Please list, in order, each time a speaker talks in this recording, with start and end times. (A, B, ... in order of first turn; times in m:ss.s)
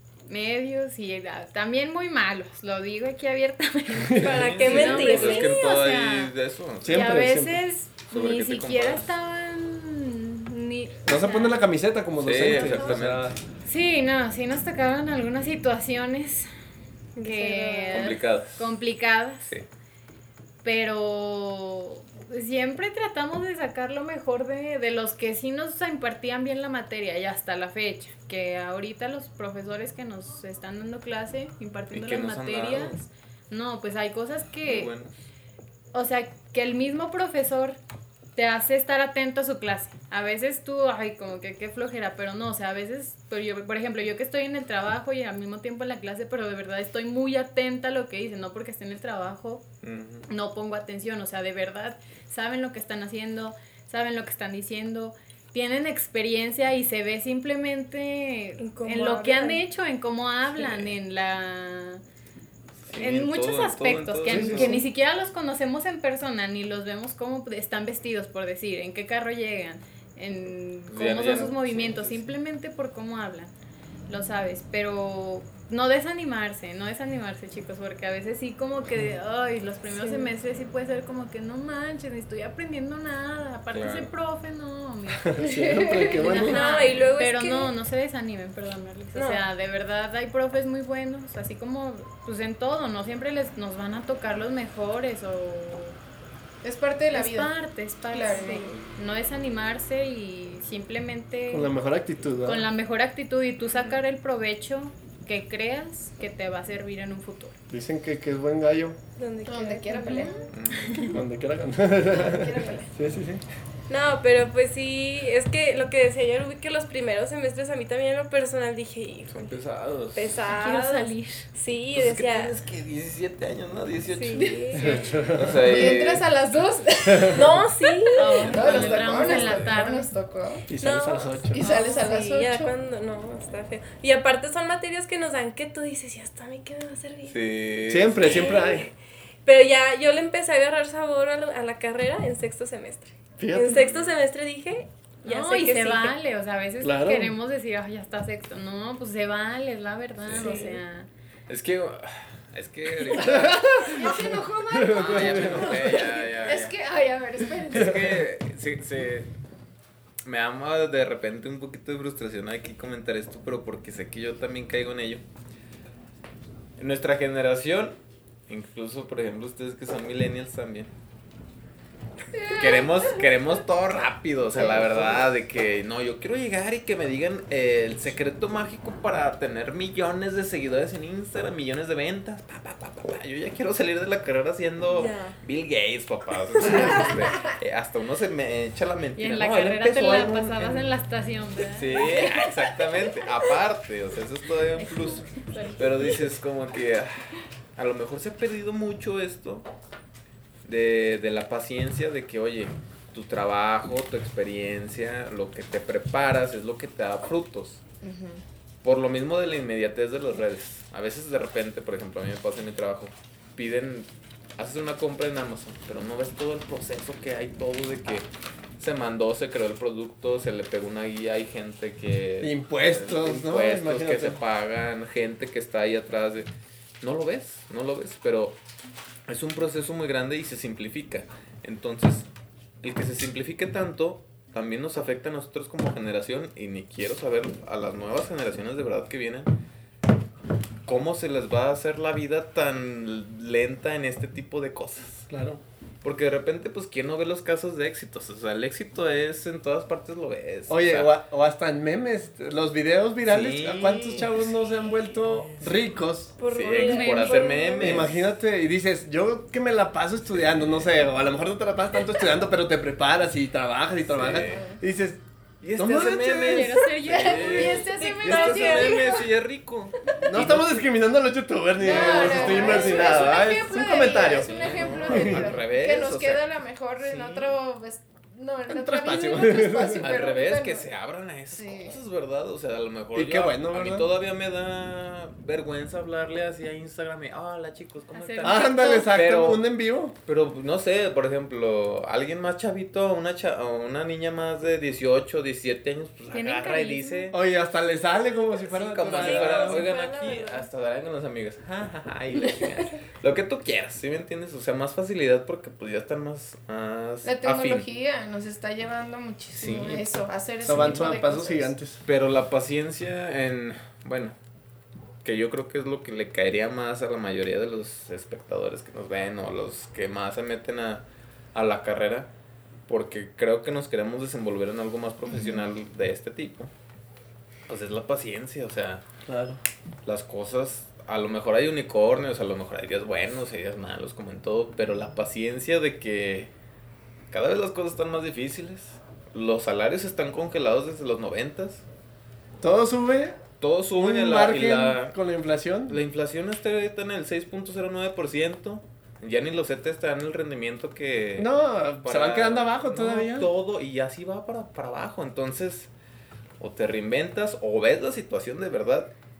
0:00.3-0:06.3 A
0:04.0-0:04.4 B
0:04.2-0:05.5 C
0:04.4-0:07.2 D
0:06.8-0:07.6 B
0:06.9-0:11.6 A
0:08.1-0:09.1 D
0:11.0-0:13.4 B
0:12.2-0:13.4 D
0:12.5-0:13.0 E
0:13.6-0:16.5 A
0:17.2-0:18.2 C
0:17.2-0:19.5 A
0:17.9-0:18.8 D
0:20.6-0:34.9 A
0:31.9-0:33.0 D
0:34.6-0:35.1 D
0:35.9-0:37.8 A
0:38.4-0:49.6 A
0:49.8-0:50.3 D
0:50.3-1:02.0 A
0:58.6-0:59.6 C
1:00.6-1:00.9 D
1:02.8-1:04.8 D
1:02.9-1:13.5 A
1:04.3-1:04.9 B
1:10.9-1:12.3 D
1:14.1-1:36.0 A
1:19.9-1:20.3 C
1:23.7-1:24.1 D
1:25.3-1:26.6 B
1:25.4-1:26.8 E
1:26.2-1:27.7 C
1:29.2-1:29.4 C
1:36.6-1:37.5 E
1:37.1-1:41.7 A
1:38.1-1:38.5 E
1:38.2-1:38.8 C
1:41.5-1:42.6 B
1:42.4-1:47.6 A
1:43.6-1:44.0 D
1:47.7-1:49.0 B
1:49.2-1:50.5 C
1:49.5-1:50.5 E
1:50.1-1:51.1 A
1:50.5-1:51.1 D
1:51.1-1:53.4 B
1:52.0-1:52.9 E
1:52.2-1:52.8 C
1:53.9-1:59.5 C
1:59.3-2:00.4 D
2:00.2-2:02.6 C
2:00.5-2:01.5 A
2:01.9-2:04.6 D
2:04.1-2:05.1 C
2:04.4-2:05.0 E
2:04.8-2:05.7 B
2:05.3-2:06.3 D
2:05.6-2:10.7 E
2:07.1-2:07.4 B
2:07.3-2:09.5 C
2:08.2-2:10.1 A
2:08.5-2:09.8 D
2:10.7-2:11.6 B
2:10.8-2:17.4 C
2:11.5-2:12.7 E
2:17.3-2:18.7 D
2:17.9-2:18.9 B
2:18.2-2:18.9 C
2:19.4-2:26.2 C
2:23.4-2:23.8 B
2:23.7-2:24.2 D
2:25.2-2:31.1 A
2:26.8-2:27.4 B
2:30.2-2:30.6 D
2:30.4-2:30.8 C
2:31.5-2:36.8 D
2:33.2-2:36.0 B
2:33.9-2:38.1 E
2:37.7-2:39.3 D
2:37.7-2:38.0 B
2:40.2-2:45.2 D
2:46.8-2:48.0 D
2:48.5-2:50.9 D
2:52.3-2:53.3 E
2:52.5-3:10.9 D
2:54.5-2:55.3 B
3:04.9-3:05.4 C
3:06.8-3:07.2 C
3:09.2-3:12.3 A
3:11.7-3:19.7 D
3:15.4-3:15.9 A
3:20.6-3:27.8 D
3:28.0-3:28.4 E
3:28.8-3:46.5 D
3:42.4-3:44.4 B
3:47.0-3:48.6 D
3:49.3-3:52.3 D
3:52.8-3:59.5 D
4:00.9-4:05.3 D
4:05.3-4:05.6 B
4:06.0-4:11.2 D
4:10.7-4:16.4 B
4:13.2-4:14.5 D
4:15.3-4:15.9 D
4:16.4-4:18.1 C
4:16.4-4:18.3 D
4:16.8-4:17.5 A
4:17.8-4:25.2 B
4:20.4-4:20.9 D
4:24.1-4:24.7 D
4:24.4-4:24.8 E
4:25.6-4:30.8 D
4:25.8-4:26.8 B
4:26.5-4:27.8 A
4:27.1-4:29.3 E
4:27.6-4:29.2 C
4:30.2-4:35.5 B
4:31.8-4:40.9 E
4:31.8-4:33.5 D
4:32.4-4:32.8 C
4:34.1-4:36.4 D
4:37.0-4:37.6 D
4:38.7-4:40.1 B
4:40.0-4:49.6 D
4:41.5-4:42.0 E
4:43.1-4:44.1 B
4:48.1-4:49.0 A
4:48.4-4:50.2 B
4:50.2-4:57.4 D
4:56.3-4:57.3 A
4:57.3-4:59.9 B
4:58.6-5:07.9 D
4:59.1-5:00.7 C
5:07.2-5:11.7 E
5:09.5-5:10.0 D
5:10.6-5:12.0 B
5:10.7-5:11.1 D
5:12.0-5:14.4 D
5:15.2-5:22.3 D
5:22.9-5:26.7 D
5:27.7-5:29.0 D
5:29.3-5:29.6 B
5:30.0-5:36.5 D
5:37.3-5:41.8 D
5:42.6-5:43.4 B
5:43.6-5:45.2 D
5:44.0-5:46.0 B
5:45.9-5:51.5 D
5:51.4-5:53.5 B
5:52.0-5:55.9 D
5:56.6-5:59.1 D